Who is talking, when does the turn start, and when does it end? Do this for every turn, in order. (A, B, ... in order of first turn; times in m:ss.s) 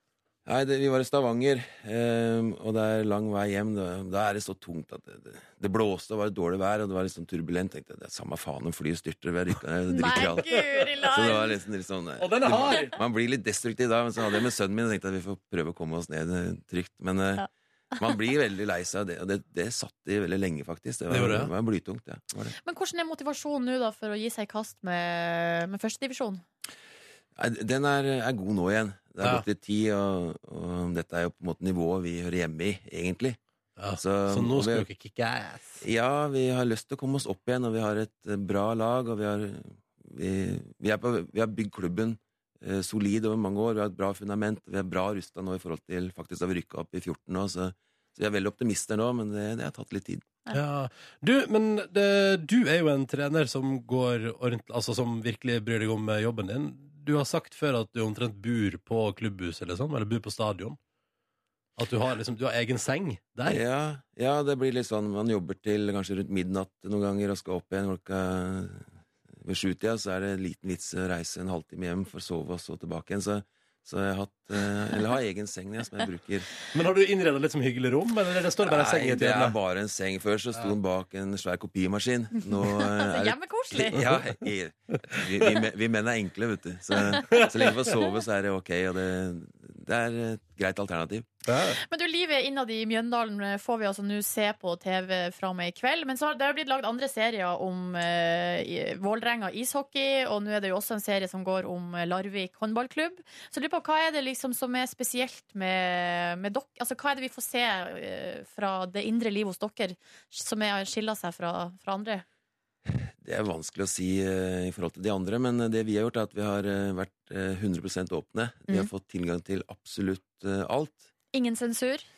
0:00.4-0:10.5 A
0:09.9-0:11.6 B
0:10.5-0:11.2 C
0:11.0-0:22.5 A
0:12.2-0:13.0 C
0:21.1-0:21.5 C
0:22.6-0:26.4 B
0:27.4-0:33.4 A
0:33.8-0:35.8 C
0:33.9-0:34.9 A
0:35.8-0:50.3 A
0:50.5-1:00.8 C
1:01.8-1:03.6 C
1:03.4-1:08.8 A
1:09.4-1:16.5 A
1:16.7-1:19.6 C
1:18.6-1:31.3 A
1:22.8-1:24.0 B
1:23.9-1:24.2 C
1:27.2-1:27.8 C
1:31.5-1:31.8 C
1:31.8-1:52.2 B
1:52.9-2:01.1 A
2:01.3-2:02.0 B